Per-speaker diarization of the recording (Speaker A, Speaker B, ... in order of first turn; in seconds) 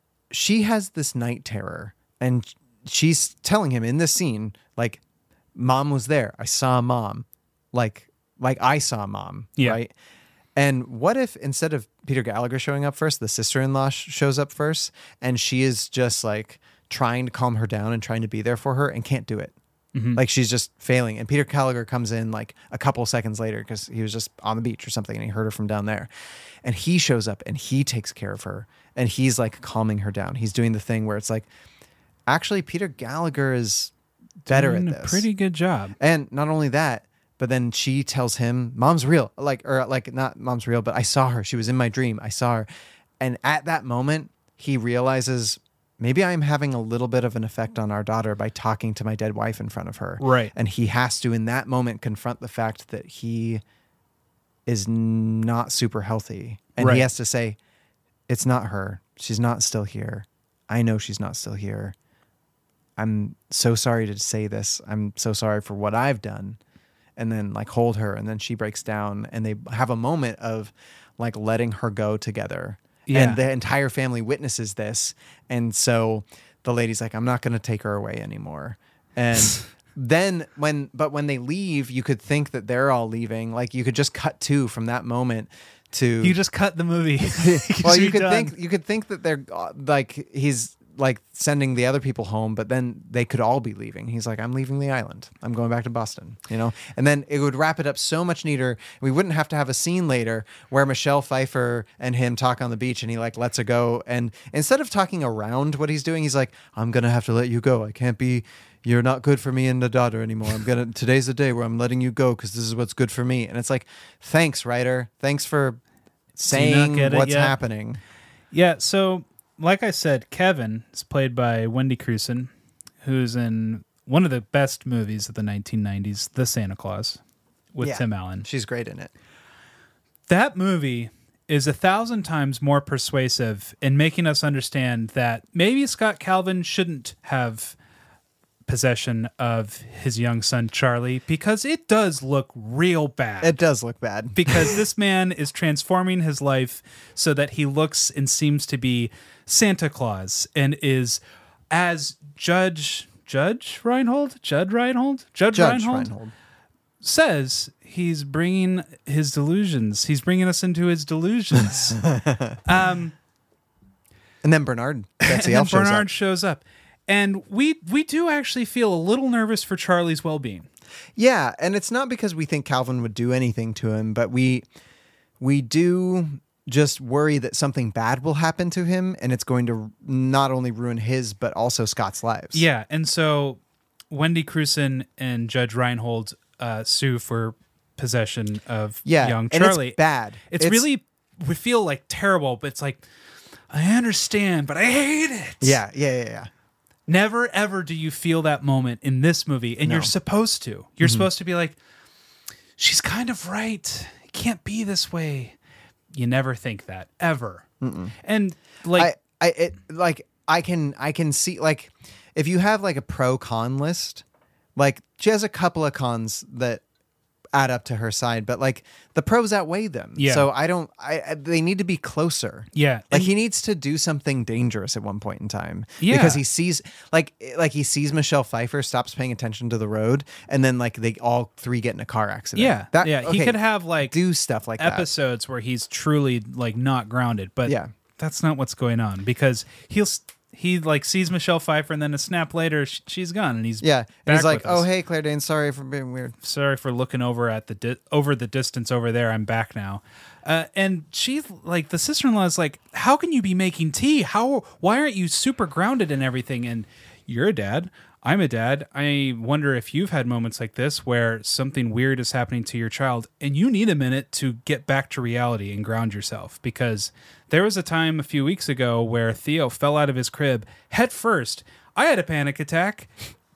Speaker A: 0.3-5.0, 5.5-9.9, 10.6-19.6, 20.1-26.1, 26.6-31.5, 32.3-33.9, 34.5-35.3, 36.0-42.7, 43.2-53.6, 54.7-57.6, 58.3-62.0, 63.0-66.6, 67.2-86.4, 87.4-115.8, 116.4-118.0, 127.8-129.1, 143.4-144.8, 155.5-156.3, 162.0-162.6, 164.4-166.1, 171.2-174.7, 175.4-182.7, 189.1-190.9, 195.6-196.5, 199.8-200.1, 201.0-201.3, 207.8-208.2, 208.9-214.2, 214.8-216.8, 217.5-235.1, 237.7-237.9, 243.8-246.3
Speaker B: 19.9-20.2, 34.5-36.0, 50.2-50.5, 56.8-57.1, 73.1-73.4, 86.2-88.5, 116.4-117.5, 118.5-122.5, 123.0-127.2, 127.7-128.5, 130.3-137.8, 138.7-143.6, 144.3-156.1, 157.0-162.0, 162.7-163.2, 165.3-170.7, 182.5-183.6, 184.1-193.1, 193.7-195.8, 197.1-201.8, 202.8-205.6, 206.1-207.7, 208.2-209.1, 220.2-220.5, 222.7-223.3, 226.0-226.4, 232.6-234.2, 234.8-244.9, 246.4-273.1